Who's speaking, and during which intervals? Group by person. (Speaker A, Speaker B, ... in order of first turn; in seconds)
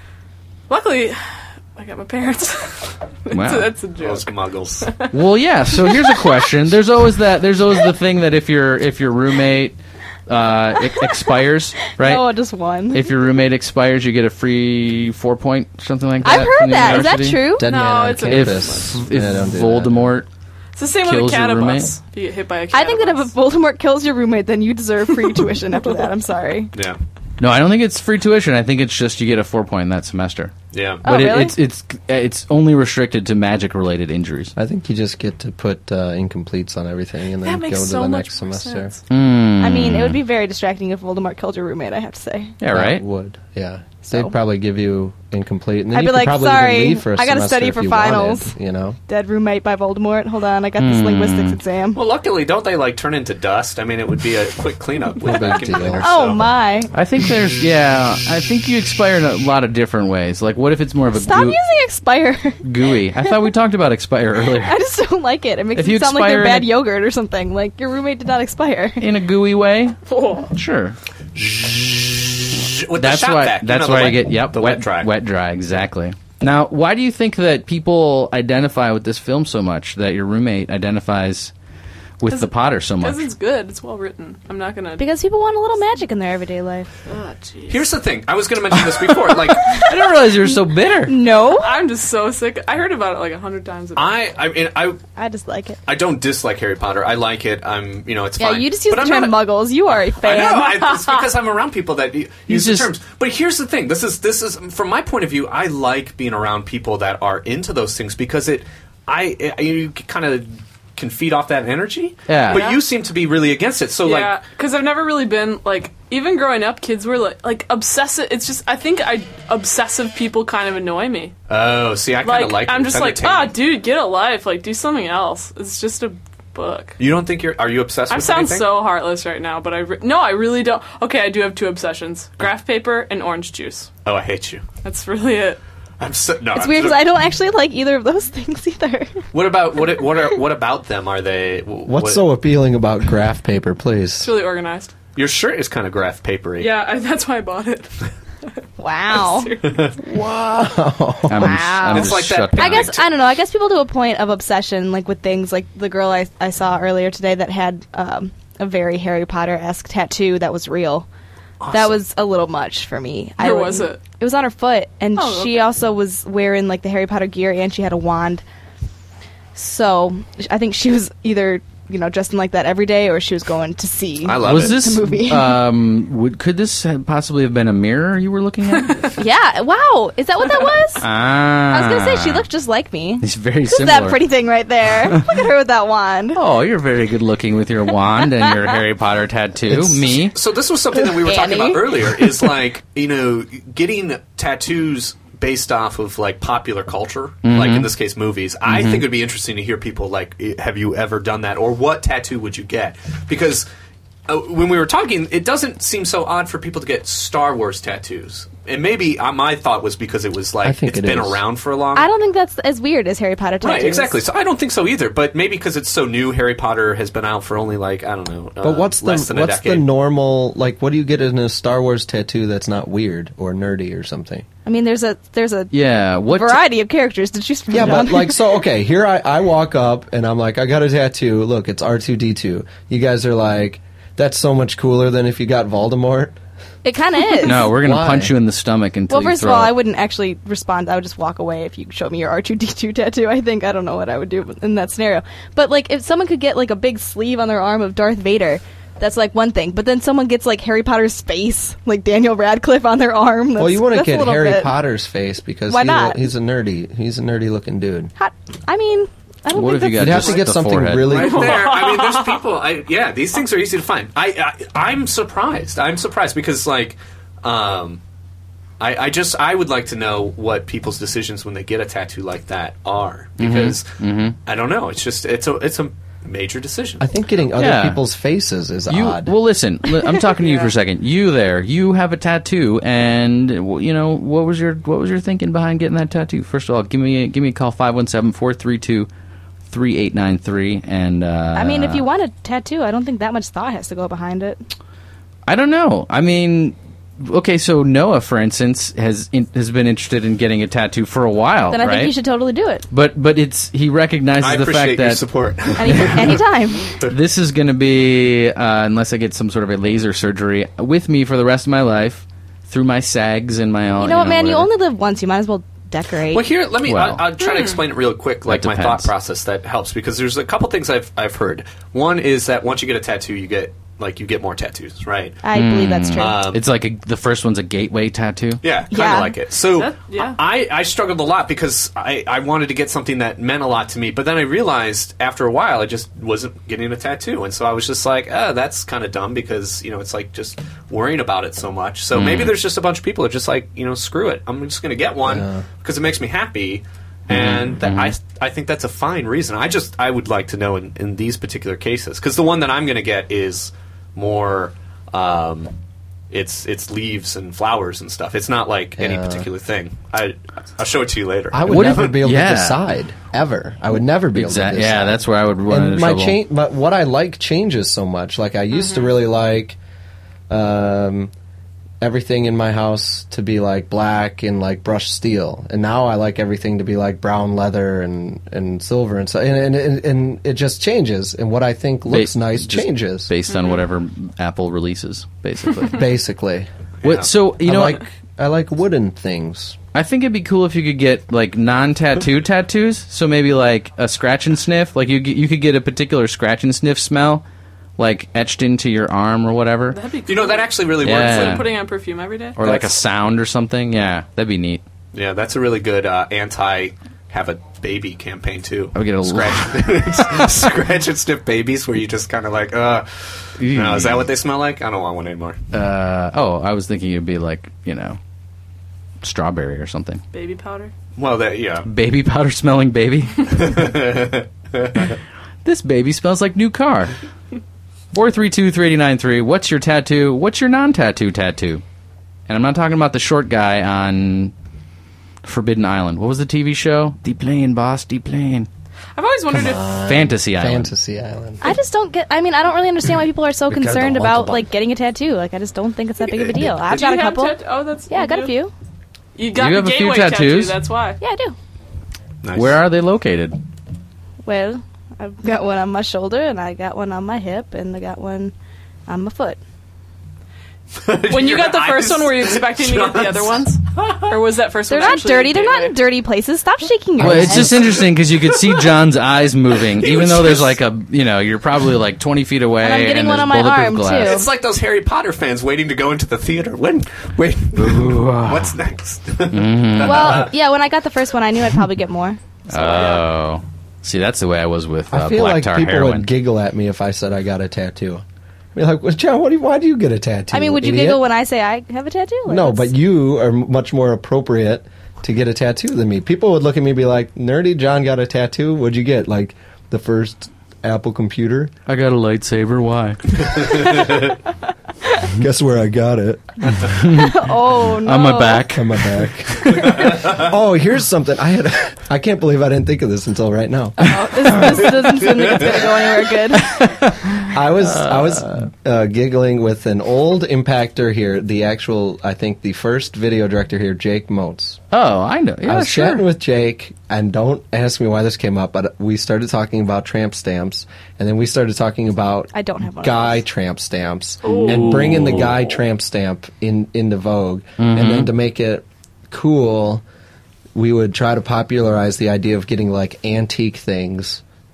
Speaker A: 0.7-5.2, 5.7-6.2, 17.6-19.0, 20.8-23.3, 37.4-39.0, 70.1-70.5, 82.3-85.1, 87.1-87.9, 91.4-94.2, 112.5-112.8, 114.0-121.3, 122.2-127.0, 128.1-133.9, 134.8-135.6, 144.2-144.9, 146.6-148.6, 149.1-149.9, 163.4-164.0, 165.2-165.7, 261.2-262.4, 317.4-317.8, 329.7-330.4, 383.5-383.8, 399.9-402.6, 420.3-420.9, 439.1-440.0, 446.8-448.6, 449.4-451.2, 461.3-466.0, 534.4-534.9
Speaker B: 3.3-3.8, 5.1-12.4, 12.9-17.4, 18.2-20.3, 21.0-21.9, 27.4-30.5, 31.0-34.5, 39.1-40.2, 42.6-43.0, 50.8-51.6, 56.9-61.6, 62.6-64.8, 65.8-66.8, 69.0-70.0, 70.5-71.0, 72.9-81.5, 82.2-83.3, 89.8-91.2, 102.5-102.9, 112.3-112.6, 151.3-152.9, 174.4-179.1, 181.0-182.4, 183.2-184.2, 186.3-190.4, 197.4-197.9, 198.7-199.0, 225.7-226.6, 237.4-239.8, 259.5-261.2, 273.4-274.4, 277.6-278.0, 278.9-289.1, 289.7-292.1, 295.5-302.1, 302.9-305.2, 305.9-306.2, 307.1-314.7, 316.9-317.2, 318.5-319.1, 325.6-328.6, 342.1-342.6, 347.3-348.1, 361.7-362.8, 364.3-366.4, 382.1-386.0, 387.0-388.0, 389.9-397.4, 398.0-400.0, 401.0-401.6, 402.6-404.8, 408.9-410.4, 413.6-414.3, 415.7-418.2, 419.2-420.2, 421.9-423.6, 425.6-427.2, 428.1-431.8, 432.5-434.5, 435.4-438.7, 440.0-440.9, 449.6-450.8, 452.5-453.6, 467.2-474.4, 477.8-478.8, 479.5-480.5, 482.7-486.3, 501.9-503.2, 506.8-507.5, 508.0-509.7, 516.7-518.7, 524.9-526.3, 534.6-535.5, 537.8-538.3
Speaker C: 4.0-4.9, 16.8-17.1, 30.7-31.0, 52.0-56.5, 71.4-75.1, 87.7-89.8, 94.0-95.0, 95.9-114.3, 121.5-123.5, 127.0-128.7, 134.1-134.6, 136.0-137.1, 139.3-142.3, 145.2-146.7, 151.8-153.1, 161.6-162.0, 174.2-174.8, 190.3-203.7, 204.3-212.1, 213.6-219.9, 261.1-268.0, 268.8-273.9, 274.5-277.0, 304.4-306.4, 316.3-325.4, 326.2-326.6, 328.6-355.7, 356.3-362.1, 387.0-387.3, 400.3-401.7, 402.6-402.9, 405.1-415.6, 421.2-421.9, 423.5-425.2, 446.3-446.8, 452.4-452.8, 461.0-464.3, 467.8-468.9, 469.9-470.8, 474.2-480.5
Speaker D: 12.0-13.1, 16.2-17.8, 22.7-26.7, 31.0-31.6, 39.6-42.5, 44.0-44.3, 45.9-48.5, 49.1-52.0, 55.8-56.9, 61.1-63.4, 64.6-69.1, 85.0-86.9, 91.0-91.8, 95.2-95.8, 98.4-100.8, 136.5-139.2, 148.8-149.6, 151.4-161.1, 161.7-168.4, 169.6-175.6, 179.2-181.1, 181.7-186.4, 191.1-192.2, 211.9-214.2, 224.7-225.7, 226.2-228.4, 236.8-237.7, 239.1-254.7, 255.7-256.2, 258.2-260.4, 291.6-294.6, 301.7-302.9, 305.8-306.9, 314.0-316.4, 325.4-326.4, 328.9-329.4, 441.6-447.6, 448.1-448.7, 451.2-451.6, 454.4-458.5, 459.1-459.6, 464.9-467.8, 472.8-474.5, 480.0-483.1, 490.5-492.9, 507.1-508.7, 514.1-516.9, 532.5-533.4
Speaker E: 17.6-20.2, 34.6-38.9, 42.7-49.0, 55.2-56.1, 141.9-144.3, 150.0-151.8, 189.7-190.3, 210.6-211.4, 218.6-224.5, 227.7-236.4, 237.6-238.3, 253.6-258.1, 259.9-261.6, 277.0-279.4, 345.2-345.6, 359.0-359.5, 361.5-369.8, 370.5-371.3, 372.0-383.3, 385.9-386.7, 387.6-389.8, 439.5-441.8, 443.7-444.7, 485.1-488.2, 488.8-491.2, 492.5-501.7, 505.4-507.0, 508.7-514.7, 517.4-524.8, 525.7-540.0, 540.7-544.4